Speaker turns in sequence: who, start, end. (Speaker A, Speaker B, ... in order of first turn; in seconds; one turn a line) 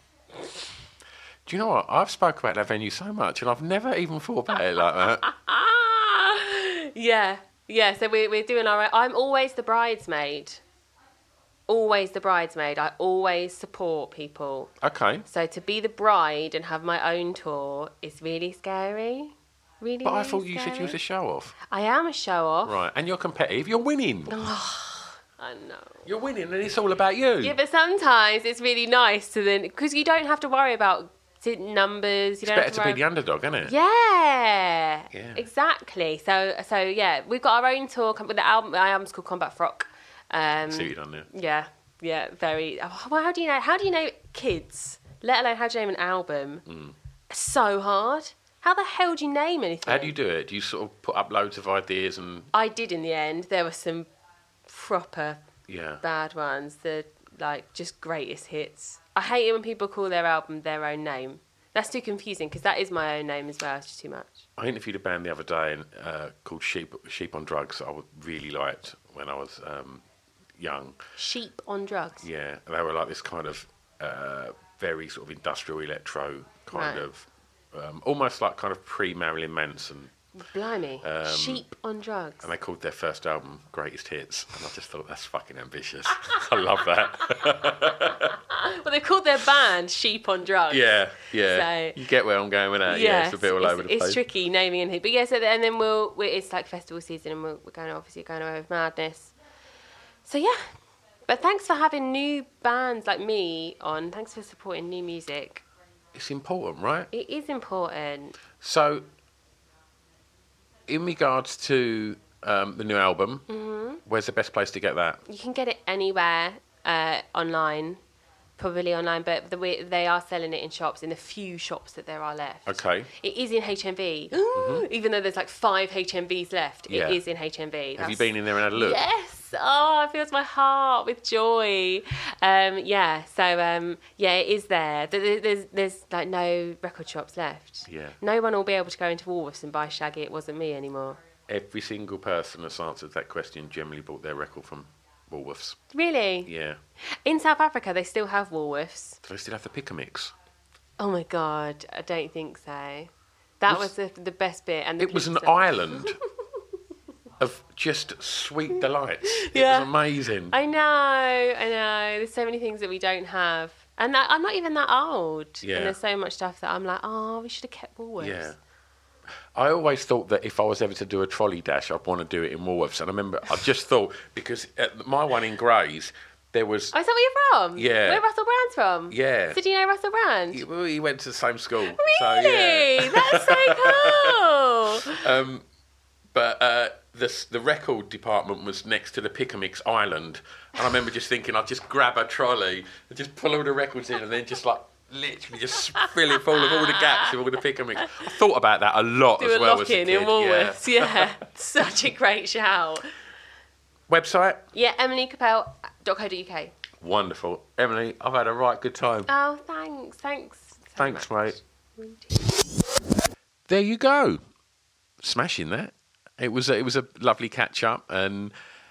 Speaker A: 1.4-5.2
Speaker B: 5.2-10.6
Speaker B: 11.7-14.7
Speaker A: 14.8-15.2
Speaker B: 15.2-21.0
Speaker A: 20.0-21.6
Speaker B: 21.7-22.7
Speaker A: 22.6-24.4
Speaker B: 24.3-26.1
Speaker A: 26.1-27.6
Speaker B: 27.4-33.0
Speaker A: 32.4-33.7
Speaker B: 33.6-46.6
Speaker A: 35.1-35.4
Speaker A: 40.7-41.3
Speaker A: 46.7-46.9
Speaker B: 47.3-50.1
Speaker A: 49.9-52.5
Speaker B: 52.5-54.1
Speaker B: 54.7-55.4
Speaker A: 55.7-56.0
Speaker B: 56.0-64.5
Speaker A: 64.6-70.0
Speaker A: 70.6-71.0
Speaker B: 71.2-72.2
Speaker A: 72.2-80.1
Speaker B: 76.7-77.0
Speaker B: 80.4-82.5
Speaker A: 81.0-81.6
Speaker A: 82.4-88.4
Speaker B: 88.5-92.0
Speaker A: 90.7-94.2
Speaker B: 92.9-99.3
Speaker B: 100.2-100.6
Speaker B: 101.3-105.6
Speaker A: 106.1-107.1
Speaker B: 107.1-108.4
Speaker A: 108.6-109.0
Speaker A: 110.9-113.5
Speaker B: 113.5-114.0
Speaker A: 114.0-115.2
Speaker B: 115.3-118.0
Speaker B: 118.6-141.2
Speaker A: 122.7-123.1
Speaker A: 124.5-124.8
Speaker A: 126.9-127.2
Speaker A: 128.0-129.0
Speaker A: 137.9-138.2
Speaker A: 141.5-145.8
Speaker B: 145.9-146.5
Speaker A: 146.4-146.8
Speaker B: 147.2-149.2
Speaker A: 149.2-150.3
Speaker B: 151.0-156.1
Speaker A: 155.0-156.2
Speaker A: 157.4-160.5
Speaker B: 159.3-159.9
Speaker B: 160.5-168.5
Speaker A: 165.6-165.9
Speaker A: 168.2-168.6
Speaker A: 169.5-176.9
Speaker B: 176.9-180.6
Speaker A: 177.8-178.2
Speaker A: 179.1-179.6
Speaker A: 180.5-184.3
Speaker B: 181.9-185.2
Speaker A: 185.0-185.6
Speaker A: 186.3-201.3
Speaker B: 196.0-197.3
Speaker B: 199.4-203.1
Speaker A: 204.1-204.6
Speaker B: 204.7-206.7
Speaker A: 207.0-209.3
Speaker B: 209.3-212.5
Speaker A: 211.0-211.6
Speaker A: 213.7-214.4
Speaker A: 215.2-218.5